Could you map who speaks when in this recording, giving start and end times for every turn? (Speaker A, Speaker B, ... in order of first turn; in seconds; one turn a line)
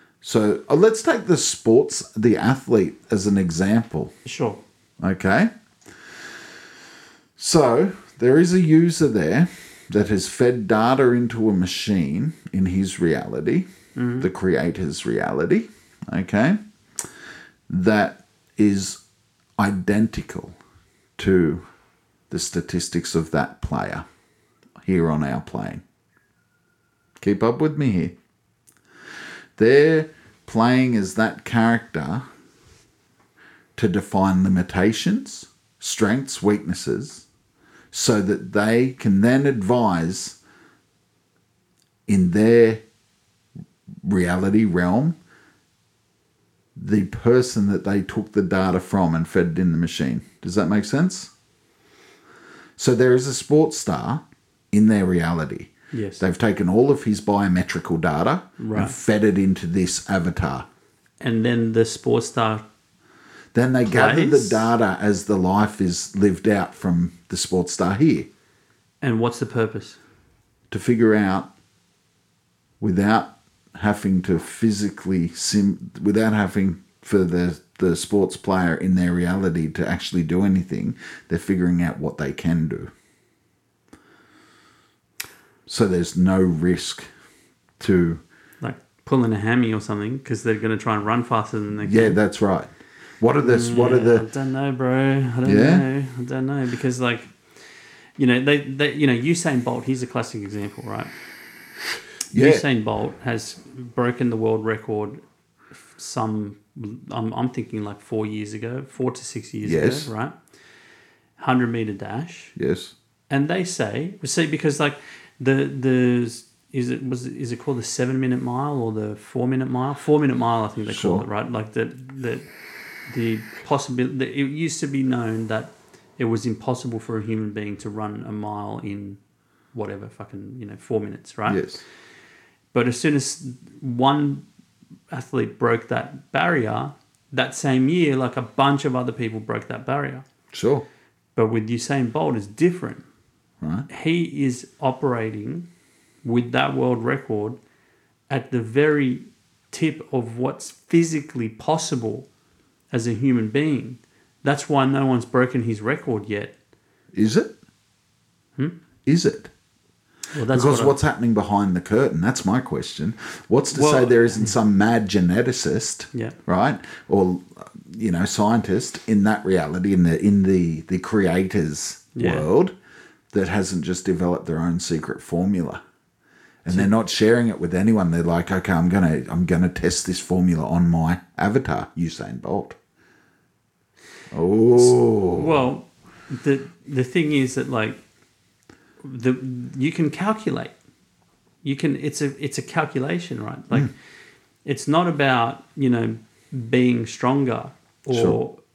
Speaker A: 0.2-4.1
Speaker B: 4.2-4.6
Speaker A: 5.0-5.5
Speaker A: 7.4-13.7
Speaker B: 13.9-14.3
Speaker A: 14.2-16.6
Speaker A: 17.7-19.0
Speaker A: 19.6-20.6
Speaker A: 21.2-21.6
Speaker A: 22.3-24.0
Speaker A: 24.8-25.8
Speaker A: 27.2-28.1
Speaker A: 29.6-32.2
Speaker A: 33.8-37.2
Speaker A: 37.9-40.4
Speaker A: 42.1-42.8
Speaker A: 44.0-45.1
Speaker A: 46.8-51.3
Speaker A: 52.8-60.6
Speaker B: 55.9-56.2
Speaker B: 58.6-58.9
Speaker B: 61.2-62.6
Speaker A: 63.5-68.3
Speaker B: 63.9-64.7
Speaker B: 69.0-70.0
Speaker A: 70.7-71.5
Speaker A: 72.8-82.9
Speaker A: 85.7-87.1
Speaker A: 87.8-88.2
Speaker B: 88.6-92.2
Speaker A: 91.8-94.2
Speaker B: 93.4-97.4
Speaker A: 95.4-95.8
Speaker B: 98.2-101.1
Speaker A: 102.3-102.6
Speaker B: 102.3-105.2
Speaker B: 105.9-110.3
Speaker A: 109.6-110.1
Speaker B: 111.4-112.5
Speaker A: 112.6-112.9
Speaker B: 113.3-122.4
Speaker A: 120.9-121.2
Speaker B: 123.1-129.2
Speaker B: 129.7-131.6
Speaker A: 131.5-131.8
Speaker B: 132.7-134.4
Speaker B: 135.1-140.2
Speaker A: 140.5-140.8
Speaker B: 141.3-143.0
Speaker A: 143.6-143.9
Speaker B: 143.9-145.7
Speaker B: 146.2-147.6
Speaker B: 148.3-152.3
Speaker B: 152.9-156.5
Speaker A: 157.1-157.5
Speaker A: 159.1-159.5
Speaker B: 160.3-160.9
Speaker A: 160.5-172.7
Speaker B: 163.7-164.5
Speaker B: 172.2-172.5
Speaker A: 173.3-175.8
Speaker A: 176.6-182.8
Speaker A: 184.3-185.6
Speaker B: 184.7-188.0
Speaker B: 189.0-190.7
Speaker B: 191.6-193.9
Speaker B: 194.6-198.6
Speaker A: 198.1-198.4